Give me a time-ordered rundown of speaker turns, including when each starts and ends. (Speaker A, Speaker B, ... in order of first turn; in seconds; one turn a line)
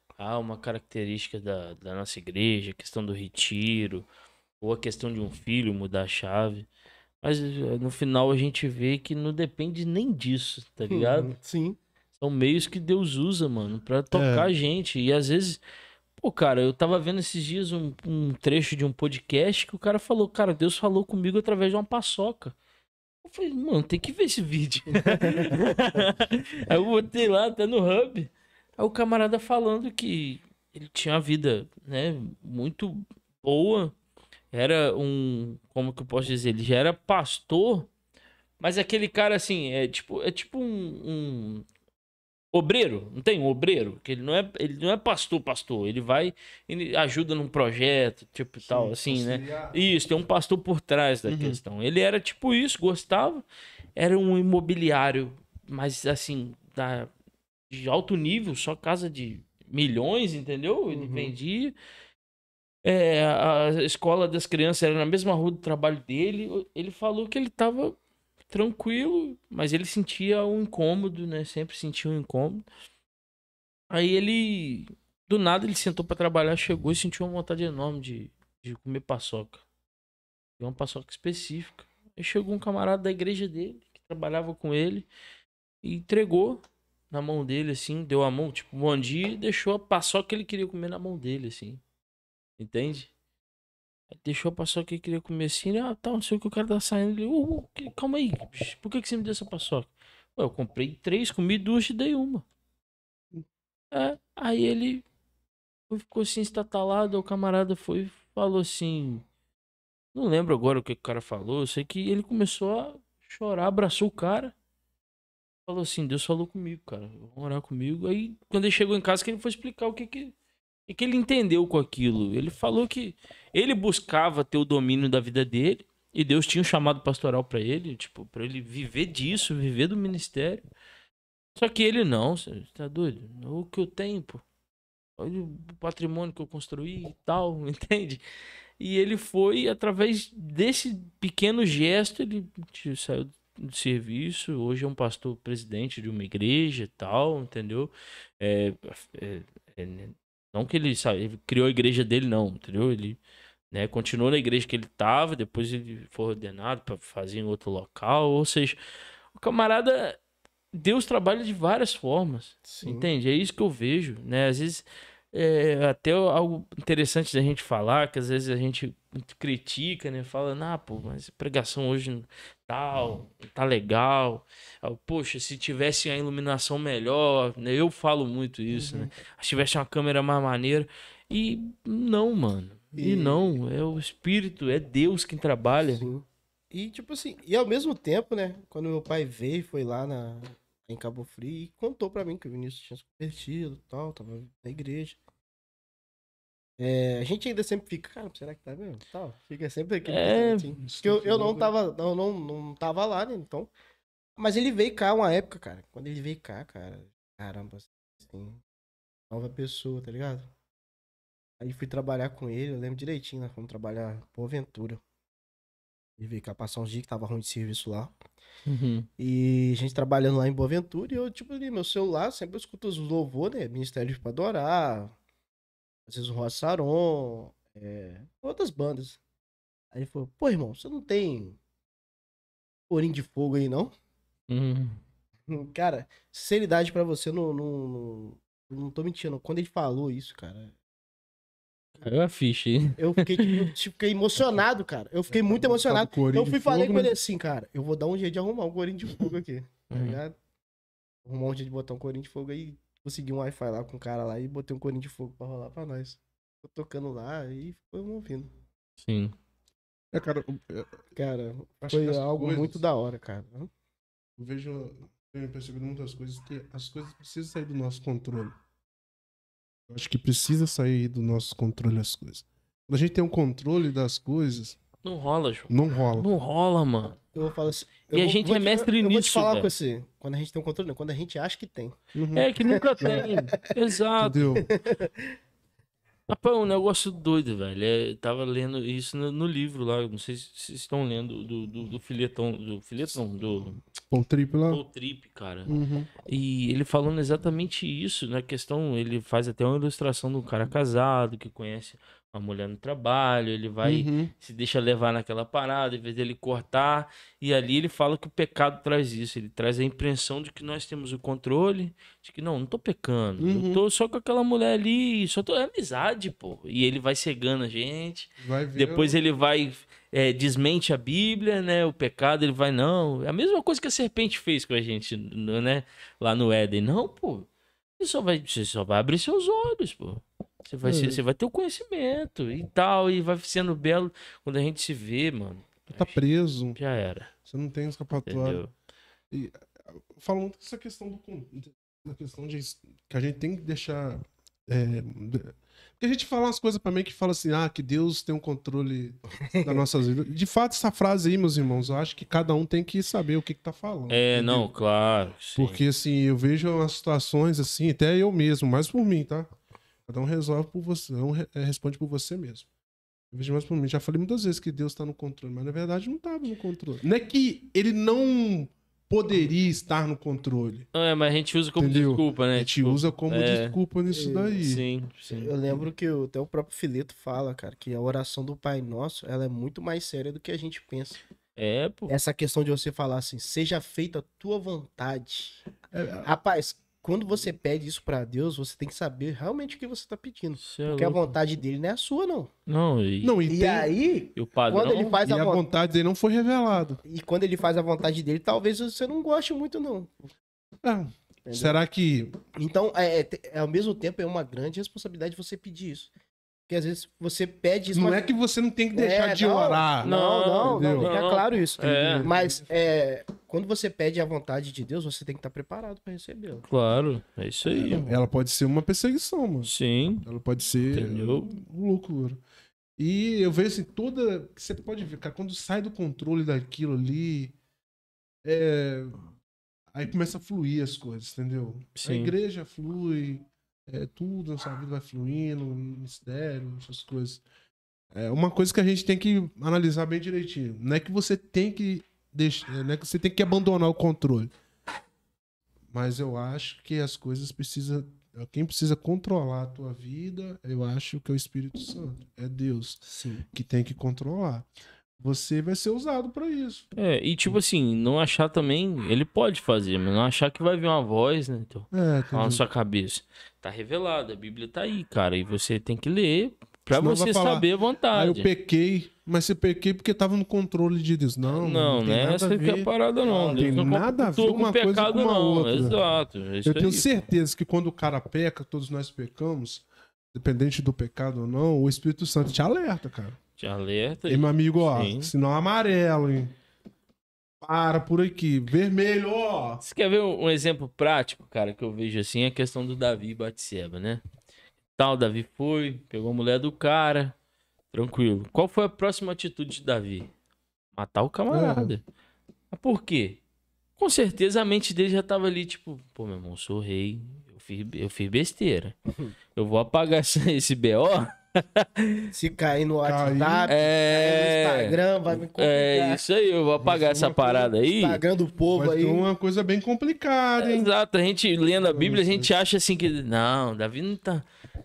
Speaker A: 0.2-4.1
Speaker A: 4.6-6.7
Speaker A: 7.2-11.3
Speaker B: 10.9-11.8
Speaker A: 12.2-15.6
Speaker C: 14.1-14.5
Speaker A: 16.2-22.6
Speaker A: 23.2-33.9
Speaker B: 24.9-25.6
Speaker A: 34.5-37.9
Speaker A: 38.6-41.6
Speaker A: 42.5-53.4
Speaker C: 48.6-49.8
Speaker C: 51.2-51.6
Speaker A: 54.0-57.1
Speaker A: 57.7-61.8
Speaker B: 60.9-61.3
Speaker A: 62.8-68.0
Speaker A: 68.5-72.7
Speaker A: 73.9-79.6
Speaker A: 80.6-85.1
Speaker A: 85.8-91.8
Speaker A: 92.6-93.1
Speaker A: 94.1-102.4
Speaker A: 103.9-105.0
Speaker A: 105.9-109.2
Speaker A: 110.1-114.5
Speaker A: 115.7-120.3
Speaker A: 120.9-130.7
Speaker A: 131.6-134.4
Speaker A: 135.2-138.2
Speaker A: 138.8-153.2
Speaker A: 153.7-158.8
Speaker A: 159.3-160.2
Speaker A: 160.7-186.1
Speaker B: 162.7-163.1
Speaker B: 182.9-183.6
Speaker B: 185.8-195.2
Speaker B: 196.8-203.7
Speaker A: 200.1-200.7
Speaker C: 200.8-201.7
Speaker B: 204.4-208.6
Speaker B: 209.3-210.5
Speaker B: 211.6-215.0
Speaker B: 216.2-218.1
Speaker A: 218.7-219.1
Speaker B: 219.2-225.1
Speaker B: 226.1-229.2
Speaker B: 229.9-231.6
Speaker B: 232.9-233.9
Speaker A: 234.5-235.0
Speaker B: 235.5-240.7
Speaker A: 242.0-243.7
Speaker B: 243.0-250.3
Speaker C: 245.3-247.1
Speaker A: 249.9-250.2
Speaker B: 251.2-258.5
Speaker A: 259.0-259.4
Speaker C: 260.1-261.0
Speaker B: 261.1-263.7
Speaker C: 261.8-262.8
Speaker C: 264.4-268.6
Speaker C: 269.9-274.8
Speaker A: 275.0-277.2
Speaker C: 275.7-276.3
Speaker B: 277.3-282.0
Speaker A: 278.1-279.7
Speaker C: 282.1-283.5
Speaker A: 282.3-284.6
Speaker B: 282.7-283.7
Speaker C: 284.2-284.7
Speaker B: 284.6-285.3
Speaker A: 286.3-293.8
Speaker C: 294.0-294.8
Speaker A: 294.7-336.2
Speaker C: 295.6-296.1
Speaker C: 303.8-304.3
Speaker C: 313.4-313.8
Speaker C: 318.4-319.1
Speaker C: 330.8-331.2
Speaker C: 335.9-336.8
Speaker A: 336.7-337.3
Speaker C: 337.4-338.6
Speaker A: 338.2-338.7
Speaker C: 339.3-354.7
Speaker B: 349.4-349.8
Speaker A: 354.1-355.8
Speaker C: 355.6-359.5
Speaker C: 360.1-362.7
Speaker C: 363.3-370.9
Speaker A: 370.9-373.8
Speaker C: 371.8-374.8
Speaker B: 374.1-374.6
Speaker A: 374.6-375.6
Speaker B: 375.3-381.2
Speaker A: 381.6-382.1
Speaker B: 382.1-385.6
Speaker C: 385.9-386.3
Speaker B: 386.2-392.5
Speaker A: 390.6-391.3
Speaker A: 392.7-393.4
Speaker C: 393.2-393.9
Speaker B: 393.5-395.6
Speaker A: 394.4-395.2
Speaker C: 395.2-397.0
Speaker B: 397.0-400.1
Speaker C: 400.8-402.4
Speaker B: 401.4-401.8
Speaker B: 402.5-406.1
Speaker B: 406.7-408.2
Speaker C: 407.9-410.1
Speaker B: 408.9-416.6
Speaker A: 410.0-412.3
Speaker C: 410.6-411.1
Speaker C: 411.8-412.7
Speaker A: 416.6-418.1
Speaker C: 417.6-419.7
Speaker A: 419.6-420.3
Speaker C: 420.2-422.4
Speaker A: 420.9-421.5
Speaker C: 423.0-427.6
Speaker C: 428.4-429.2
Speaker C: 429.9-437.4
Speaker A: 432.0-432.3
Speaker C: 438.1-444.5
Speaker C: 445.9-453.0
Speaker B: 453.0-453.5
Speaker C: 453.5-454.7
Speaker C: 455.2-456.9
Speaker A: 456.9-468.5
Speaker C: 461.9-462.6
Speaker C: 466.9-476.0
Speaker A: 471.5-477.1
Speaker B: 473.2-473.9
Speaker C: 476.6-483.4
Speaker A: 483.6-485.3
Speaker C: 484.3-486.5
Speaker C: 487.6-489.8
Speaker A: 489.8-494.2
Speaker A: 495.0-497.3
Speaker A: 497.9-500.3
Speaker A: 500.9-502.0
Speaker C: 501.5-501.9
Speaker A: 502.7-503.4
Speaker A: 504.0-508.9
Speaker A: 509.5-512.3
Speaker B: 512.3-516.2
Speaker C: 513.0-513.7
Speaker A: 513.7-518.2
Speaker C: 516.8-517.5
Speaker B: 517.1-519.2
Speaker C: 518.7-520.9
Speaker A: 520.6-524.5
Speaker C: 521.8-522.6